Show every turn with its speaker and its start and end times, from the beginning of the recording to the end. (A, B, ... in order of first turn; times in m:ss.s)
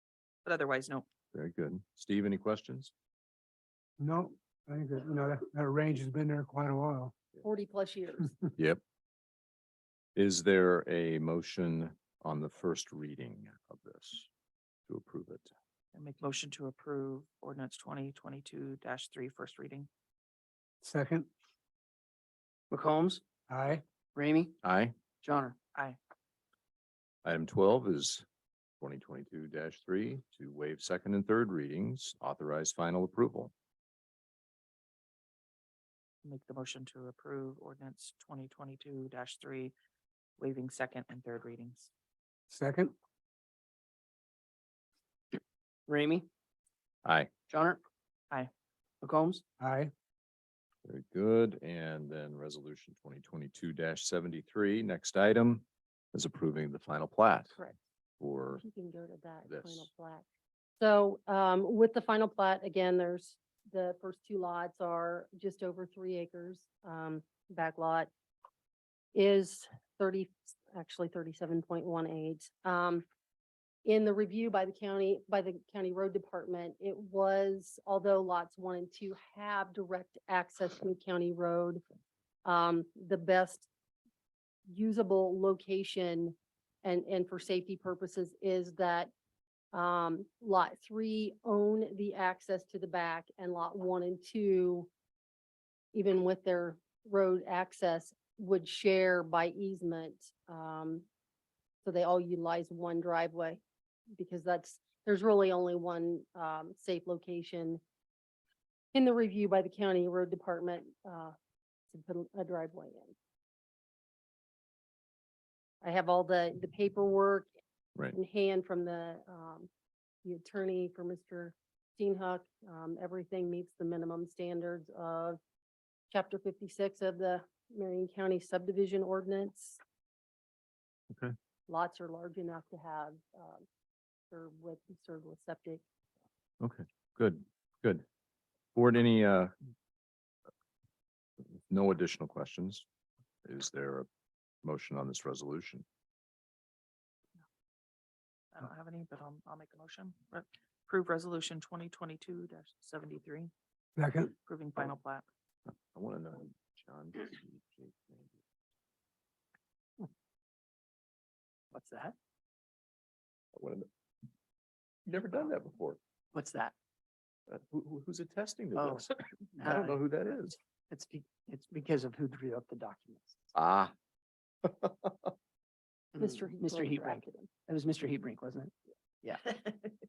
0:00.4-0:01.0 A
0:01.3-0:02.9 B
0:04.0-0:07.1 C
0:07.4-0:08.3 D
0:10.2-0:14.3 B
0:14.9-0:15.5 B
0:15.9-0:19.9 A
0:20.8-0:21.3 C
0:22.7-0:23.2 E
0:23.5-0:23.8 C
0:24.2-0:24.6 E
0:24.6-0:25.0 B
0:25.2-0:25.6 E
0:27.2-0:28.2 B
0:28.8-0:33.5 B
0:36.2-0:39.7 A
0:40.4-0:41.9 A
0:42.5-0:42.9 C
0:45.3-0:46.3 E
0:47.5-0:47.8 E
0:49.0-0:49.4 E
0:49.6-0:49.9 C
0:50.8-0:57.6 B
0:58.2-0:58.6 B
0:58.6-1:00.2 D
0:59.5-0:59.9 B
1:00.8-1:08.1 D
1:09.1-1:13.0 D
1:13.8-1:21.8 D
1:22.4-1:23.7 D
1:24.7-1:29.1 D
1:29.7-1:34.9 D
1:35.9-1:41.1 D
1:41.8-1:43.6 D
1:44.2-1:47.8 D
1:48.9-1:51.4 D
1:51.9-1:53.2 D
1:55.8-1:57.5 D
1:58.1-1:59.7 D
2:00.2-2:05.4 D
2:06.1-2:09.8 D
2:11.7-2:13.7 D
2:14.3-2:15.8 D
2:16.6-2:18.0 B
2:18.8-2:19.5 B
2:21.7-2:22.8 B
2:23.4-2:24.1 B
2:24.6-2:25.8 B
2:28.5-2:33.5 A
2:34.0-2:34.3 C
2:34.4-2:35.2 A
2:35.9-2:38.4 B
2:41.7-2:42.2 E
2:43.5-2:43.9 B
2:45.1-2:46.0 B
2:46.3-2:46.7 E
2:47.5-2:50.6 B
2:48.8-2:50.0 E
2:50.9-2:53.4 E
2:53.6-2:53.9 B
2:54.6-2:55.1 B
2:56.2-2:59.7 E
2:56.2-2:57.5 D